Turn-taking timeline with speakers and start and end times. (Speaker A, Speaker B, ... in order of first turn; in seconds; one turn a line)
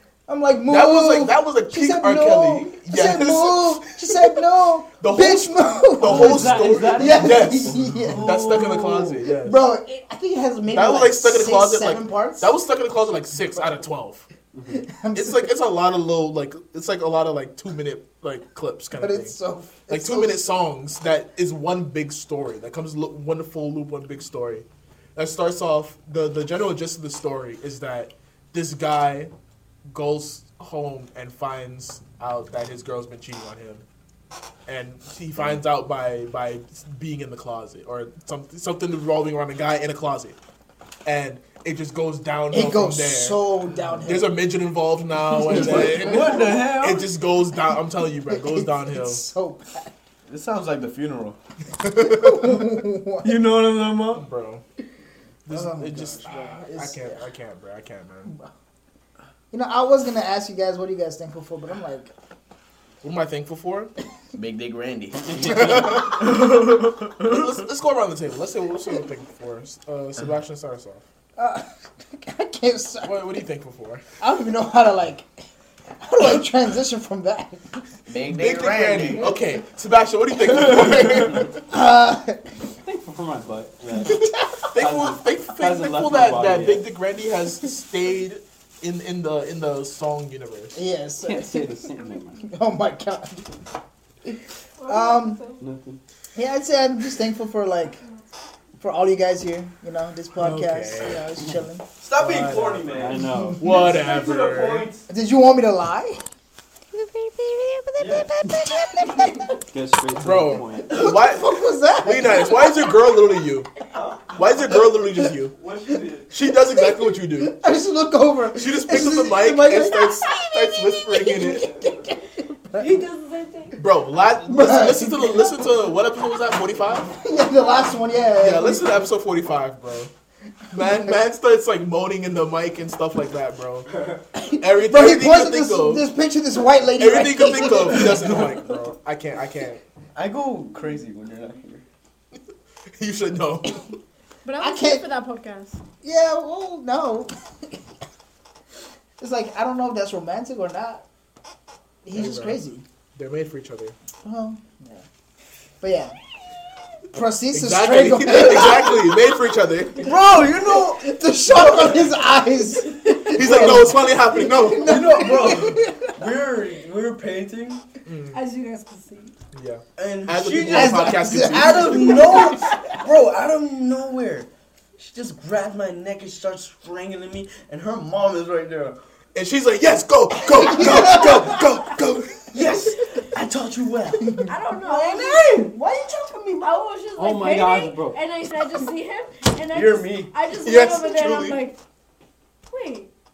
Speaker A: 0.3-12.5
Speaker B: 0.7-4.2
Speaker B: 5.0-9.7
Speaker C: 6.0-7.7
Speaker D: 8.0-9.2
Speaker B: 10.7-14.3
Speaker C: 14.6-14.8
Speaker A: 14.7-15.5
Speaker B: 15.1-19.3
Speaker A: 19.0-20.5
Speaker B: 19.9-29.3
Speaker B: 29.9-33.8
Speaker B: 34.7-40.4
Speaker B: 41.0-43.4
Speaker A: 42.5-44.4
Speaker B: 44.0-49.2
Speaker D: 45.4-47.2
Speaker A: 45.5-46.5
Speaker A: 48.2-49.9
Speaker D: 50.3-51.4
Speaker B: 51.8-52.6
Speaker A: 51.9-53.4
Speaker D: 53.2-54.3
Speaker B: 54.1-54.6
Speaker B: 55.5-58.3
Speaker A: 55.5-57.2
Speaker A: 59.5-62.1
Speaker B: 63.0-63.9
Speaker D: 64.3-67.5
Speaker C: 65.3-65.9
Speaker B: 65.4-66.6
Speaker B: 67.2-71.0
Speaker A: 71.4-73.2
Speaker B: 73.0-74.0
Speaker A: 74.2-75.3
Speaker A: 76.0-77.8
Speaker D: 78.1-79.3
Speaker B: 78.2-81.6
Speaker A: 80.6-82.5
Speaker C: 82.8-86.9
Speaker A: 84.0-84.6
Speaker B: 84.6-90.8
Speaker A: 90.7-93.5
Speaker C: 91.2-92.5
Speaker E: 94.8-95.6
Speaker A: 94.8-95.4
Speaker C: 95.6-96.0
Speaker A: 96.3-98.0
Speaker A: 98.8-101.8
Speaker B: 100.4-101.2
Speaker D: 102.0-103.3
Speaker B: 102.2-103.0
Speaker C: 102.8-105.1
Speaker A: 103.3-103.8
Speaker B: 103.5-104.9
Speaker A: 105.1-106.2
Speaker A: 106.9-109.5
Speaker D: 108.0-108.3
Speaker C: 109.7-111.0
Speaker B: 110.1-113.7
Speaker A: 110.9-112.9
Speaker D: 114.0-114.4
Speaker B: 114.3-115.5
Speaker D: 115.5-116.4
Speaker B: 116.3-117.6
Speaker A: 116.7-123.0
Speaker B: 118.5-121.7
Speaker E: 122.7-123.8
Speaker B: 123.8-127.1
Speaker A: 124.4-125.5
Speaker A: 127.1-128.9
Speaker E: 127.5-127.9
Speaker B: 128.4-130.1
Speaker B: 130.7-133.9
Speaker A: 134.3-138.4
Speaker B: 134.6-136.1
Speaker B: 136.9-139.8
Speaker D: 137.8-138.5
Speaker D: 140.1-141.8
Speaker B: 142.9-143.9
Speaker E: 144.4-145.8
Speaker A: 144.6-145.0
Speaker A: 146.0-147.8
Speaker A: 149.2-151.0
Speaker A: 152.0-152.8
Speaker B: 152.1-152.6
Speaker B: 153.2-153.9
Speaker A: 154.2-155.0
Speaker A: 155.8-156.1
Speaker A: 157.1-159.3
Speaker B: 157.5-160.1
Speaker D: 160.0-162.0
Speaker A: 160.7-166.2
Speaker B: 163.2-165.2
Speaker D: 164.7-167.8
Speaker B: 168.0-168.4
Speaker E: 168.3-169.3
Speaker B: 169.5-172.3
Speaker D: 169.9-179.0
Speaker A: 170.7-172.9
Speaker B: 179.3-182.5
Speaker A: 180.5-181.8
Speaker D: 182.5-185.7
Speaker A: 184.2-184.5
Speaker E: 184.4-185.7
Speaker A: 185.2-186.7
Speaker E: 186.6-191.8
Speaker C: 187.2-188.2
Speaker D: 189.7-190.3
Speaker B: 190.5-191.7
Speaker E: 192.7-193.1